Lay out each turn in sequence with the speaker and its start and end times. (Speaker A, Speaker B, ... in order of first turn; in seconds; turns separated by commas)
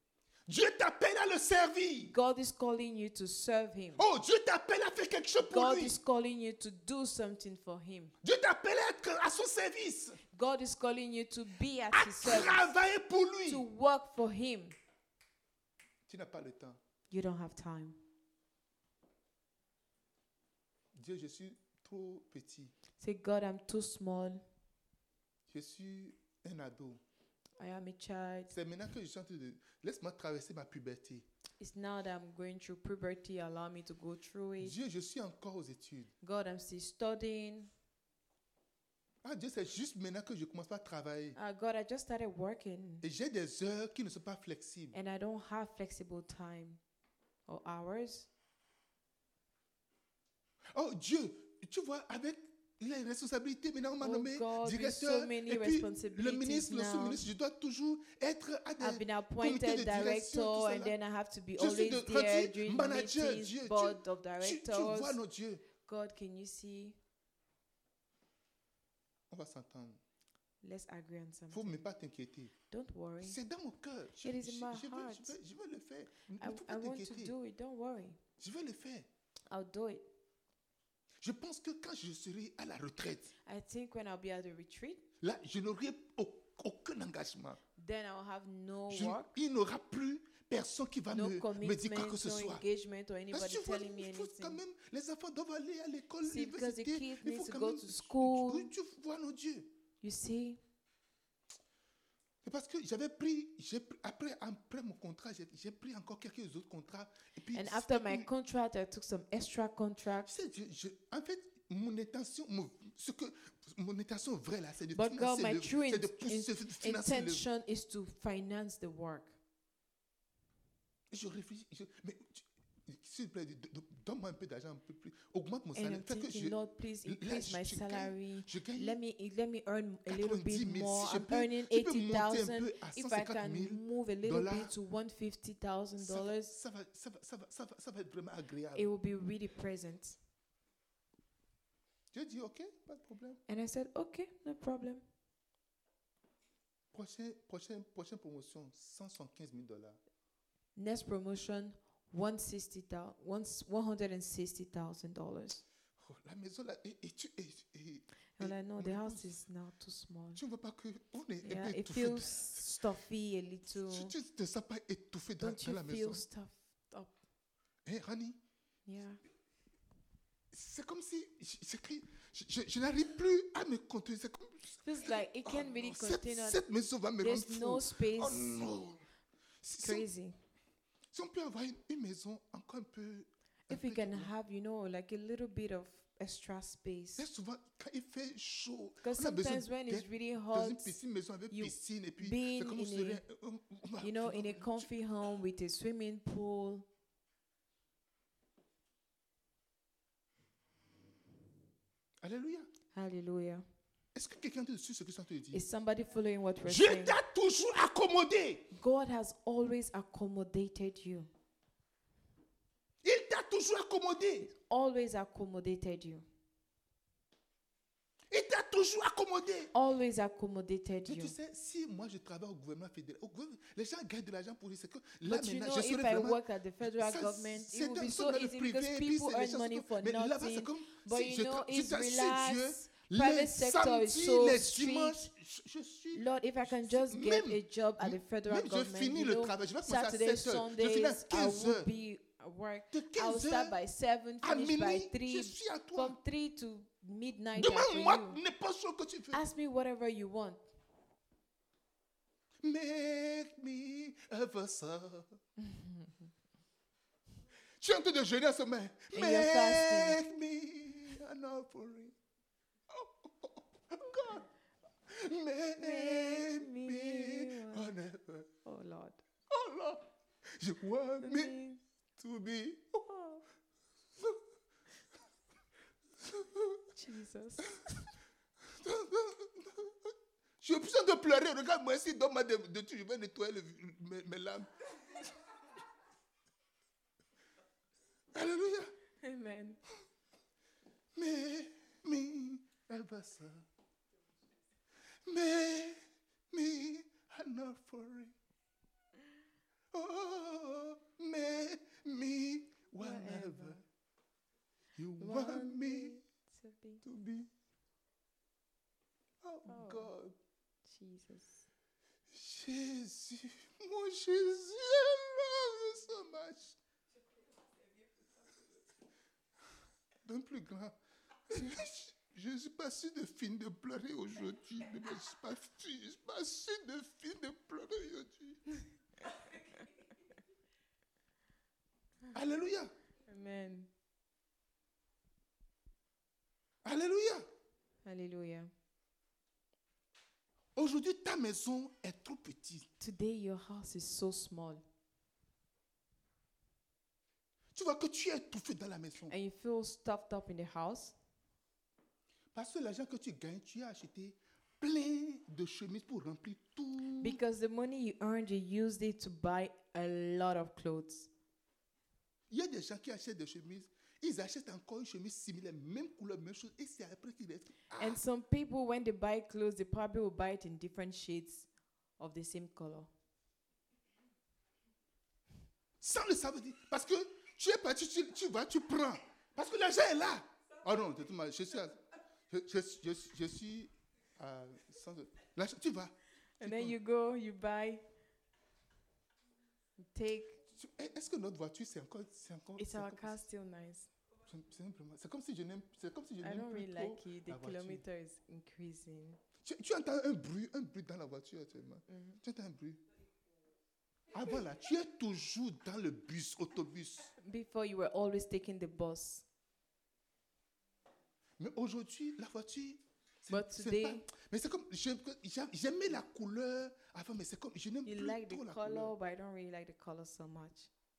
Speaker A: 0.5-2.1, Speaker B: 2.1-4.0, Speaker A: 4.0-6.0, Speaker B: 5.4-8.1, Speaker A: 8.2-10.2, Speaker B: 10.3-12.6, Speaker A: 11.9-13.6, Speaker B: 13.5-14.8, Speaker A: 16.1-16.8, Speaker B: 17.1-18.0, Speaker A: 20.9-22.7, Speaker B: 23.0-24.4, Speaker A: 25.5-27.0, Speaker B: 27.6-28.5, Speaker A: 28.5-31.2, Speaker B: 31.6-34.7, Speaker A: 34.6-36.1, Speaker B: 36.2-37.7, Speaker A: 39.2-41.4, Speaker B: 41.4-43.0, Speaker A: 43.0-45.0, Speaker B: 44.9-46.8, Speaker B: 47.5-48.3, Speaker A: 50.7-60.9, Speaker B: 54.0-57.3, Speaker B: 58.8-65.2, Speaker A: 61.6-65.6, Speaker B: 65.8-67.0, Speaker A: 69.3-70.0, Speaker B: 70.6-71.8, Speaker A: 71.5-72.5, Speaker B: 72.7-73.4, Speaker A: 73.2-77.3, Speaker B: 74.2-75.3, Speaker B: 76.4-78.2, Speaker A: 78.4-79.1, Speaker B: 79.5-80.0, Speaker A: 81.2-83.3, Speaker B: 83.4-85.0, Speaker A: 85.2-87.6, Speaker B: 87.8-89.3, Speaker A: 88.9-92.6, Speaker B: 91.1-94.6, Speaker A: 93.3-99.7, Speaker B: 96.2-98.7, Speaker B: 100.0-100.6, Speaker A: 102.4-108.3, Speaker B: 107.5-110.3, Speaker A: 110.2-117.4, Speaker B: 114.9-119.3, Speaker A: 121.1-129.0, Speaker B: 125.7-136.5, Speaker A: 130.1-134.7, Speaker A: 136.0-138.9, Speaker B: 138.7-140.2, Speaker A: 142.1-143.4, Speaker B: 143.5-145.0, Speaker A: 146.9-150.0, Speaker B: 150.8-155.6, Speaker A: 156.0-159.3, Speaker B: 158.4-160.4, Speaker A: 160.3-162.6, Speaker B: 161.4-164.1, Speaker A: 163.7-166.2, Speaker B: 165.4-167.1, Speaker A: 167.8-168.4, Speaker B: 168.8-169.2, Speaker A: 170.5-179.0, Speaker B: 174.8-176.6, Speaker B: 177.2-178.6, Speaker A: 179.6-180.1, Speaker B: 179.8-180.4, Speaker A: 181.1-184.3, Speaker B: 183.7-187.2, Speaker A: 187.2-194.9, Speaker B: 189.0-191.0, Speaker B: 191.5-193.2, Speaker B: 194.0-196.9, Speaker A: 202.2-202.7, Speaker B: 202.9-203.6, Speaker A: 204.1-205.6, Speaker B: 205.5-207.2, Speaker A: 206.6-208.7, Speaker B: 208.7-211.3, Speaker A: 213.0-214.5, Speaker B: 214.4-216.2, Speaker A: 218.3-219.7, Speaker B: 219.7-221.3, Speaker A: 221.0-241.9, Speaker B: 225.2-235.3, Speaker B: 236.1-248.4, Speaker A: 242.9-243.7, Speaker A: 244.4-246.2, Speaker A: 247.5-249.4, Speaker B: 249.3-250.6, Speaker A: 252.6-255.4, Speaker B: 255.6-256.1, Speaker A: 257.8-262.1, Speaker B: 259.1-260.2, Speaker A: 262.9-264.5, Speaker A: 265.1-268.5, Speaker B: 265.8-267.9, Speaker B: 268.6-269.2, Speaker A: 269.5-271.6, Speaker B: 271.2-271.8, Speaker A: 272.2-273.1, Speaker B: 273.1-273.4, Speaker A: 276.2-276.8, Speaker B: 276.9-278.1, Speaker A: 278.6-285.2, Speaker A: 288.3-288.9, Speaker B: 289.2-289.8, Speaker A: 291.1-293.7, Speaker A: 295.2-296.0, Speaker A: 296.5-298.3, Speaker A: 299.9-303.8, Speaker B: 303.0-303.8, Speaker A: 305.0-306.2, Speaker B: 305.2-307.0, Speaker A: 307.0-307.5, Speaker A: 309.4-310.4, Speaker B: 309.7-310.1, Speaker B: 310.9-311.7, Speaker A: 312.3-316.8, Speaker A: 320.2-320.9, Speaker A: 321.5-328.6, Speaker A: 332.3-332.9, Speaker B: 333.3-333.9, Speaker A: 336.8-337.4, Speaker B: 338.0-338.7, Speaker A: 340.7-342.9, Speaker B: 343.0-344.8, Speaker A: 347.7-349.3, Speaker B: 349.3-351.1, Speaker A: 352.5-357.4, Speaker B: 357.2-361.3, Speaker A: 362.5-368.2, Speaker B: 368.0-371.7, Speaker B: 372.2-373.1, Speaker A: 376.0-382.0, Speaker A: 382.5-386.9, Speaker B: 386.6-388.0, Speaker B: 390.0-390.6, Speaker A: 390.7-393.4, Speaker B: 392.8-394.1, Speaker A: 394.5-398.0, Speaker B: 396.4-399.4, Speaker A: 399.6-403.0, Speaker B: 402.1-402.4, Speaker A: 404.3-407.3, Speaker B: 407.4-409.4, Speaker A: 411.6-419.1, Speaker B: 413.5-414.3, Speaker B: 418.0-420.9